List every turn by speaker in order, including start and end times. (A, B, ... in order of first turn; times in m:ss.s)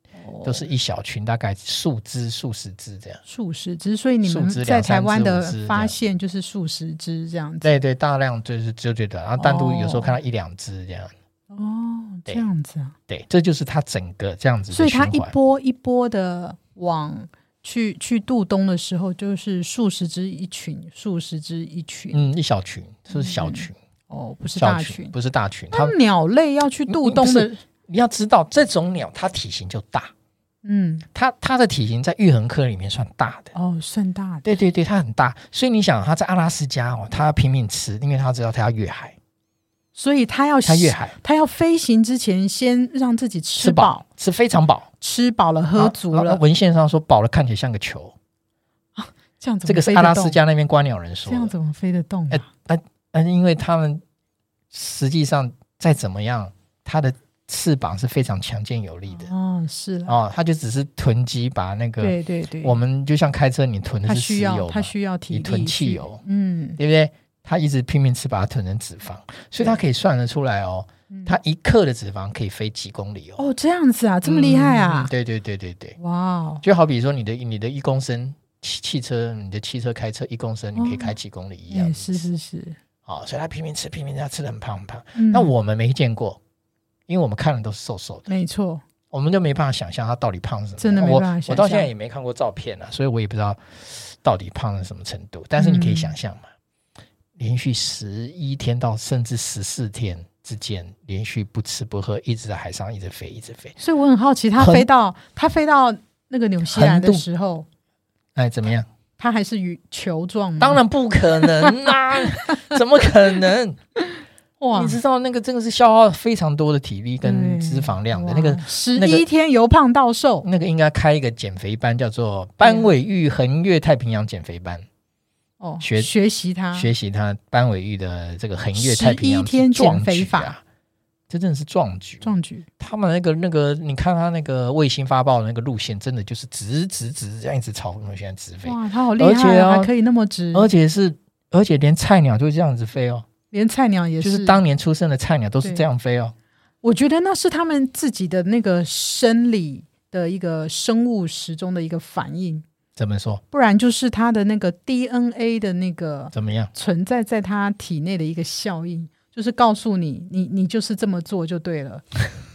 0:00.2-0:00.7 A
0:00.4-0:03.2 B
0:03.3-0:07.7 A
0:04.3-0:06.0 B
0:07.6-0:11.1 B
0:09.4-0:10.2 A
0:11.5-0:13.0 A
0:13.1-0:15.3 B
0:14.7-0:22.2 A
0:22.1-0:23.8 B
0:23.1-0:25.1 A
0:24.6-0:25.9 B
0:25.7-0:27.6 A
0:26.9-0:30.1 B
0:30.6-0:31.0 A
0:31.1-0:33.5 B
0:33.6-0:34.5 A
0:34.4-0:39.2 B
0:40.0-0:44.0 A
0:40.6-0:41.2 B
0:43.6-0:44.9 B
0:45.0-0:46.4 A
0:45.8-0:48.1 B
0:49.0-0:50.4 A
0:49.7-0:51.5 B
0:51.3-0:52.5 A
0:52.3-0:54.0 B
0:54.7-0:59.3 B
0:59.1-1:00.2 A
1:00.1-1:06.2 B
1:02.0-1:02.8 A
1:04.1-1:06.8 A
1:06.8-1:13.4 B
1:11.1-1:11.4 A
1:13.4-1:15.1 A
1:14.2-1:16.0 B
1:16.0-1:16.6 A
1:16.6-1:22.3 B
1:20.8-1:21.1 A
1:21.7-1:22.8 A
1:23.1-1:26.4 B
1:25.2-1:25.5 A
1:27.1-1:28.3 B
1:28.3-1:28.8 A
1:29.1-1:36.5 B
1:30.8-1:31.9 A
1:35.6-1:36.2 A
1:37.4-1:43.8 B
1:43.8-1:47.7 A
1:44.6-1:44.9 B
1:46.7-1:47.2 B
1:48.4-1:48.9 B
1:49.2-1:50.8 A
1:50.6-1:53.8 B
1:51.4-1:52.2 A
1:54.6-1:55.0 A
1:54.7-1:59.3 B
1:57.2-2:00.5 A
2:00.4-2:04.9 B
2:02.6-2:02.9 A
2:05.6-2:06.9 A
2:05.8-2:06.1 B
2:06.7-2:10.6 B
2:08.7-2:10.6 A
2:11.3-2:12.3 B
2:12.2-2:12.7 A
2:12.8-2:19.9 B
2:18.6-2:20.7 A
2:20.5-2:23.2 B
2:23.5-2:24.6 A
2:24.2-2:26.3 B
2:26.8-2:32.6 A
2:33.0-2:33.4 B
2:33.5-2:42.2 A
2:36.3-2:36.7 B